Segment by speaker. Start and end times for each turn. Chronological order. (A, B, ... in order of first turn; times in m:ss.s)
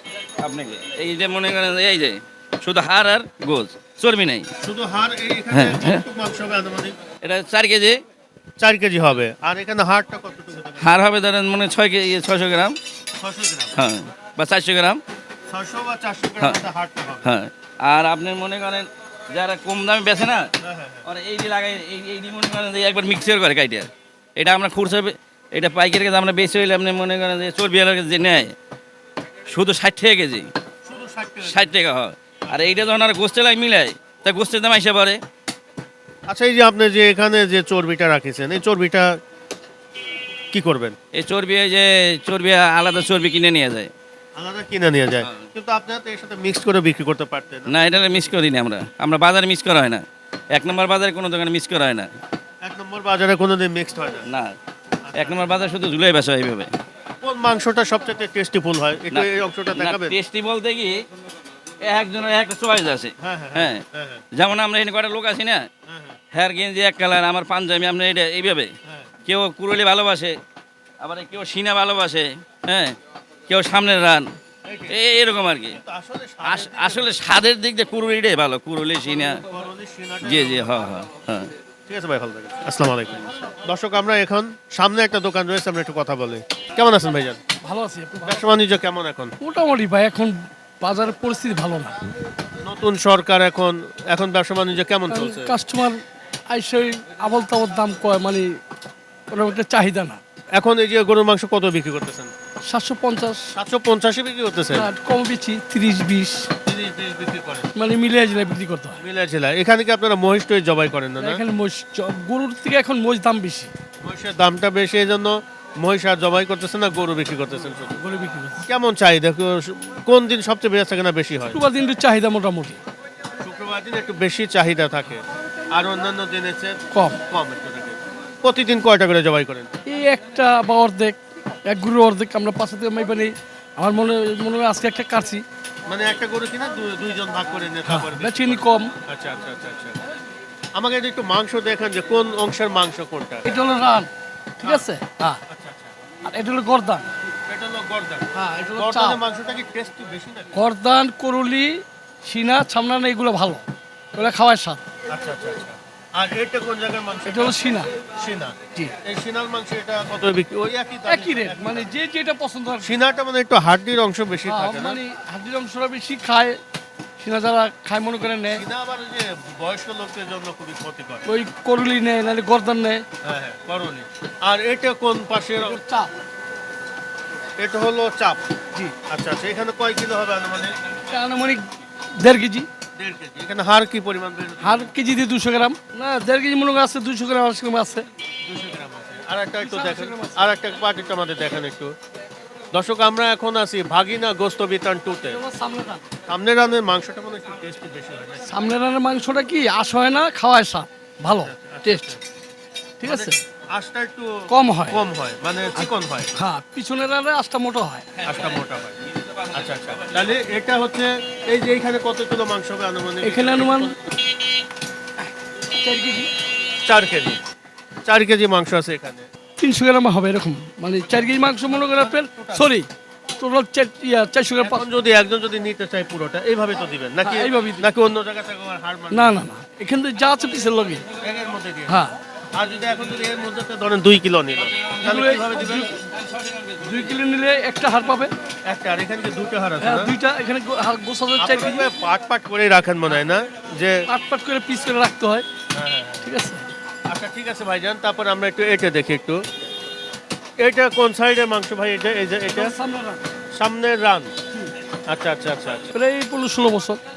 0:00.4-0:04.5 A
0:04.6-0:06.9 B
0:05.5-0:06.0 A
0:07.2-0:08.0 A
0:08.6-0:10.9 B
0:10.8-0:12.8 A
0:13.2-0:13.8 B
0:13.8-0:15.0 A
0:15.5-0:17.3 B
0:17.2-0:20.5 A
0:20.6-0:21.0 B
0:21.0-0:28.5 A
0:29.5-0:30.5 A
0:30.8-0:31.7 B
0:31.5-0:35.2 A
0:32.4-0:32.9 B
0:36.3-0:39.1 B
0:40.5-0:41.0 B
0:41.1-0:43.9 A
0:44.4-0:47.8 B
0:47.7-0:52.1 A
0:52.6-0:54.3 B
0:54.3-0:54.6 A
0:55.0-0:55.5 B
0:55.2-0:56.7 A
0:57.2-1:00.2 B
0:59.1-1:00.9 A
1:01.9-1:03.8 A
1:03.2-1:04.2 B
1:04.4-1:05.6 A
1:05.9-1:06.2 B
1:06.3-1:08.7 A
1:09.2-1:10.4 A
1:11.0-1:13.0 A
1:13.5-1:14.3 A
1:14.6-1:15.0 B
1:14.9-1:15.8 A
1:15.7-1:17.2 B
1:16.4-1:19.4 A
1:19.3-1:20.9 B
1:20.2-1:21.5 A
1:21.9-1:27.4 B
1:27.6-1:28.5 C
1:28.2-1:29.4 B
1:29.4-1:32.0 C
1:32.6-1:35.5 B
1:35.1-1:36.0 C
1:36.5-1:38.6 C
1:39.3-1:40.2 C
1:40.6-1:42.3 B
1:42.7-1:43.5 C
1:43.5-1:44.9 B
1:44.7-1:46.5 C
1:46.6-1:47.7 B
1:47.8-1:49.0 C
1:49.0-1:51.4 B
1:51.2-1:53.7 C
1:54.0-1:58.0 B
1:58.0-1:58.7 C
1:58.7-2:01.6 B
2:01.5-2:02.8 C
2:03.4-2:09.8 B
2:06.9-2:07.2 C
2:09.9-2:11.2 C
2:11.7-2:15.4 C
2:15.9-2:20.0 B
2:17.9-2:18.9 C
2:20.8-2:23.6 B
2:23.4-2:24.1 C
2:24.6-2:25.4 C
2:25.5-2:26.0 B
2:26.2-2:27.1 C
2:27.5-2:30.5 B
2:28.3-2:29.2 C
2:30.5-2:33.6 C
2:34.1-2:34.8 C
2:35.1-2:41.9 B
2:37.2-2:37.9 C
2:41.1-2:42.9 C
2:42.8-2:45.0 B
2:44.5-2:46.6 C
2:47.2-2:48.6 C
2:48.5-2:51.2 B
2:51.2-2:53.0 C
2:53.2-2:55.8 B
2:55.6-2:56.1 C
2:57.6-2:58.4 B
2:59.1-3:00.8 B
3:01.1-3:02.7 C
3:03.0-3:04.9 B
3:04.6-3:08.1 C
3:08.5-3:11.9 B
3:09.6-3:10.5 C
3:12.7-3:15.4 B
3:15.3-3:16.0 C
3:16.3-3:18.7 B
3:18.5-3:22.2 C
3:21.3-3:22.2 B
3:23.0-3:23.4 C
3:23.0-3:24.3 B
3:24.5-3:25.0 C
3:24.9-3:26.3 B
3:25.8-3:28.1 C
3:28.2-3:29.0 B
3:29.5-3:34.0 B
3:33.2-3:34.0 C
3:35.8-3:36.3 C
3:36.8-3:37.4 B
3:38.0-3:39.2 B
3:39.6-3:42.9 C
3:41.5-3:42.7 B
3:43.4-3:44.9 C
3:44.6-3:49.4 B
3:47.2-3:47.9 C
3:49.1-3:51.0 C
3:51.2-3:52.0 B
3:51.9-3:52.2 C
3:52.5-3:55.9 B
3:55.0-3:55.9 C
3:56.8-3:58.3 C
3:58.6-4:00.1 B
3:59.8-4:01.9 C
4:01.4-4:04.1 B
4:04.1-4:05.5 C
4:05.7-4:06.2 B
4:06.2-4:06.6 C
4:07.1-4:09.4 B
4:10.6-4:12.7 B
4:12.5-4:13.2 C
4:13.5-4:14.3 B
4:15.1-4:15.9 B
4:15.9-4:17.0 C